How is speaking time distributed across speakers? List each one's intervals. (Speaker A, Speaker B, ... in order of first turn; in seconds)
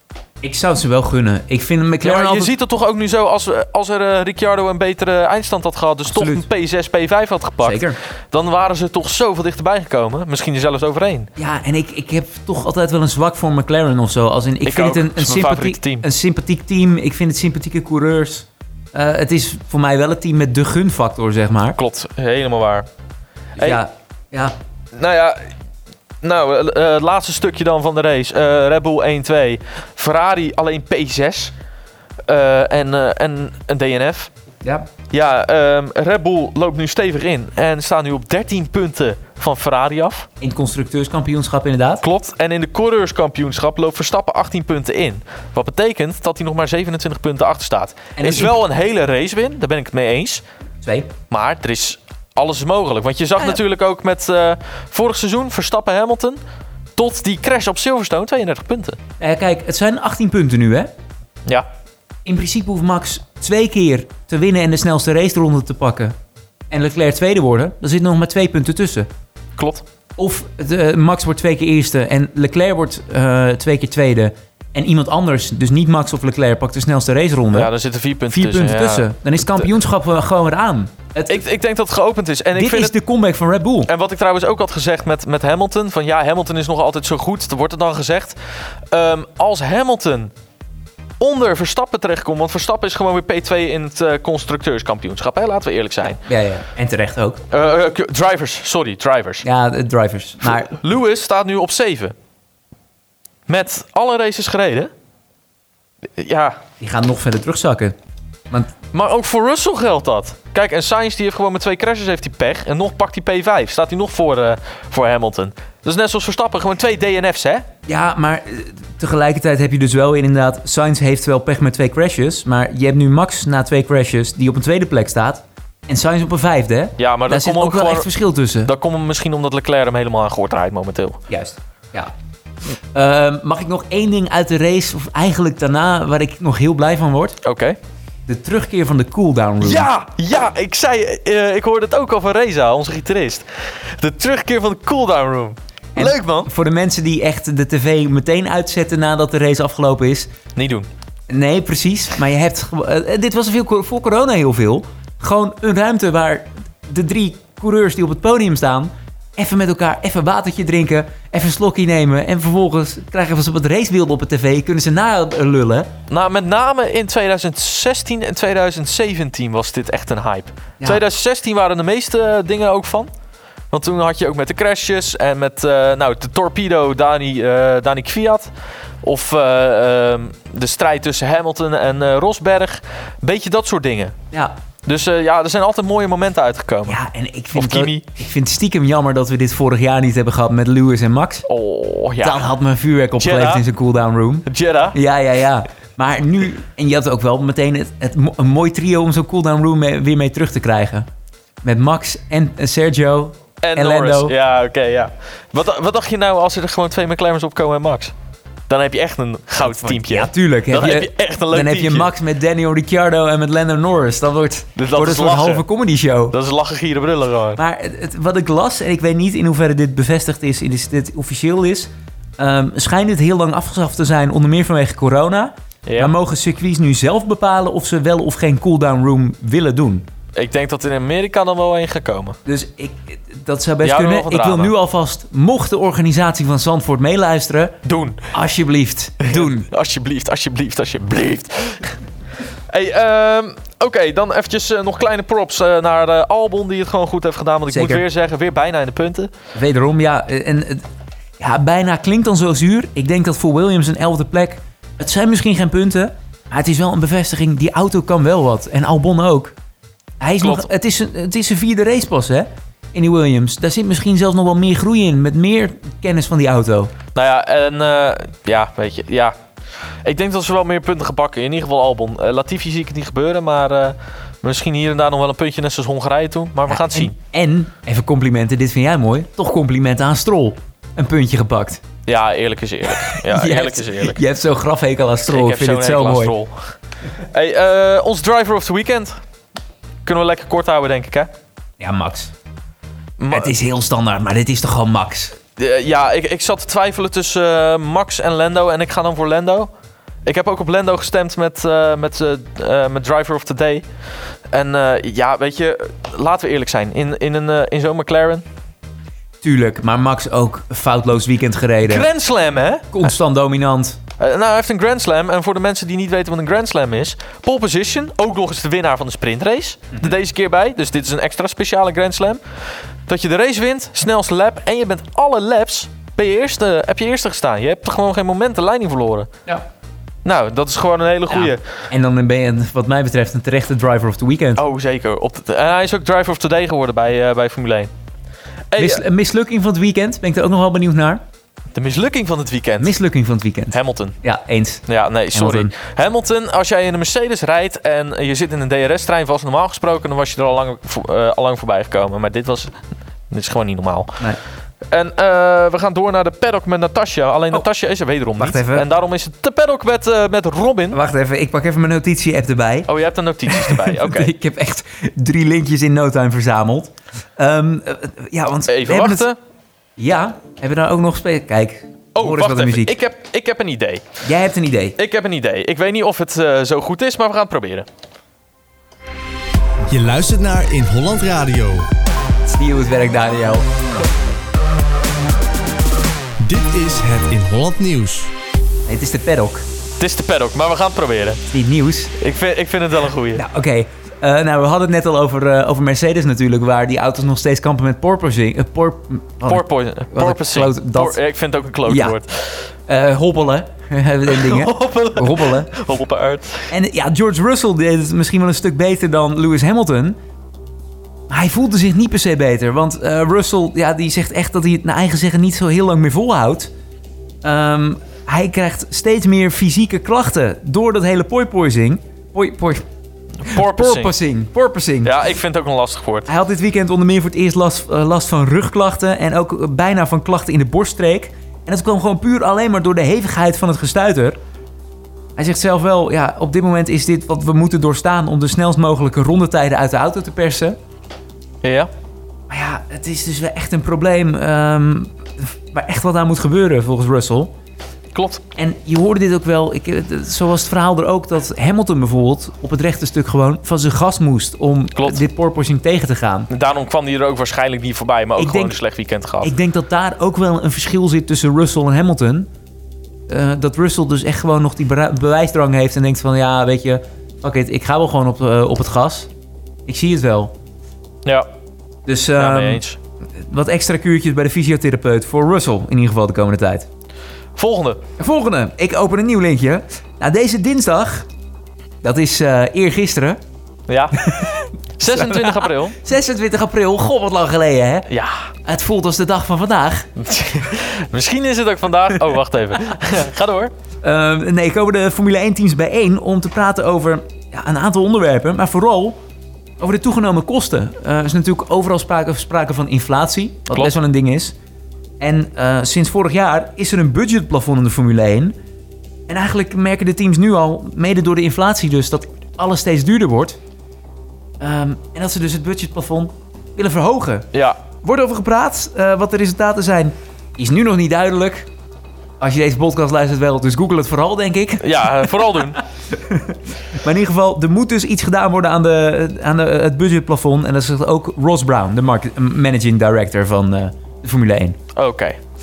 Speaker A: 0.4-2.5, 6.1-6.5, 7.6-8.0, 11.4-21.8, 23.6-24.6, 34.6-34.9, 40.4-42.0, 48.2-48.6, 50.8-51.1, 59.2-60.9, 62.2-66.2, 66.7-69.1, 70.2-77.7, 78.3-81.4, 82.5-83.9, 96.2-97.4, 99.4-100.7, 106.8-108.0, 117.9-128.7, 131.3-132.1, 132.9-137.4, 138.3-139.9, 146.0-150.3, 151.3-165.9, 186.9-191.4, 192.2-201.1, 201.6-204.3, 209.6-216.3, 217.6-230.1, 232.5-237.8, 238.3-239.7, 247.7-248.0, 249.6-250.8, 251.4-259.6, 260.2-266.9, 276.7-281.8, 283.0-286.4, 291.8-292.3, 293.3-295.4, 309.4-312.1, 312.9-314.0, 331.3-334.6, 338.8-341.2, 342.8-345.7, 358.4-358.9, 360.9-362.9, 363.5-369.3, 370.0-373.0, 374.2-375.0, 382.5-383.7, 388.9-389.6, 391.5-392.1, 393.4-401.2, 401.9-402.2, 402.9-405.7, 406.7-410.2, 411.3-416.7, 417.4-422.9, 423.5-425.2, 426.3-434.4, 435.4-440.8, 442.5-447.5, 448.6-456.5, 458.4-458.8, 459.4-462.5, 463.3-469.3, 469.9-470.5, 472.1-472.8, 473.4-476.9, 478.2-481.3, 482.0-483.4, 484.2-488.1, 488.6-490.1, 494.0-499.2, 499.8-504.6, 505.2-508.6, 509.3-513.6, 514.6-517.5, 518.0-521.7, 522.4-534.8
Speaker B: 2.0-11.3, 14.6-16.1, 21.8-22.9, 23.6-23.8, 24.9-25.5, 26.2-31.5, 32.3-34.3, 35.1-40.3, 42.0-50.4, 51.3-56.4, 57.0-59.0, 69.6-69.8, 77.5-79.1, 81.3-83.0, 83.9-88.4, 88.9-90.3, 91.2-96.2, 97.5-99.5, 100.5-102.2, 103.5-104.9, 106.2-106.6, 108.9-117.7, 127.0-128.1, 128.7-131.2, 137.4-137.8, 139.6-146.5, 150.6-150.9, 166.1-173.1, 173.7-178.5, 179.0-184.2, 184.9-187.0, 187.6-188.1, 191.5-192.5, 193.2-193.6, 194.5-195.0, 203.6-208.1, 208.7-212.1, 214.8-215.6, 216.3-217.6, 225.9-226.1, 230.3-232.4, 233.8-234.7, 237.8-238.3, 239.2-242.0, 242.7-249.3, 260.4-260.7, 267.1-269.4, 270.0-277.1, 282.1-284.2, 285.3-289.2, 290.1-291.3, 293.2-293.5, 295.6-299.7, 300.2-303.9, 304.5-308.4, 311.9-312.9, 314.2-322.4, 323.1-329.3, 330.2-331.6, 334.6-337.9, 338.7-339.0, 341.8-342.9, 343.7-344.2, 344.9-352.8, 353.3-354.2, 354.9-361.0, 362.9-364.3, 368.7-369.4, 372.1-374.1, 375.0-377.9, 390.0-391.4, 392.2-393.4, 399.5-402.7, 404.3-406.7, 423.4-424.1, 425.0-426.3, 441.6-441.9, 448.1-448.4, 455.0-455.2, 456.5-459.5, 472.4-473.0, 477.6-478.0, 483.9-484.4, 485.0-486.0, 488.1-488.5, 490.2-493.7, 517.5-517.8, 524.8-525.8, 535.0-535.4
Speaker C: 379.9-381.9, 386.4-388.3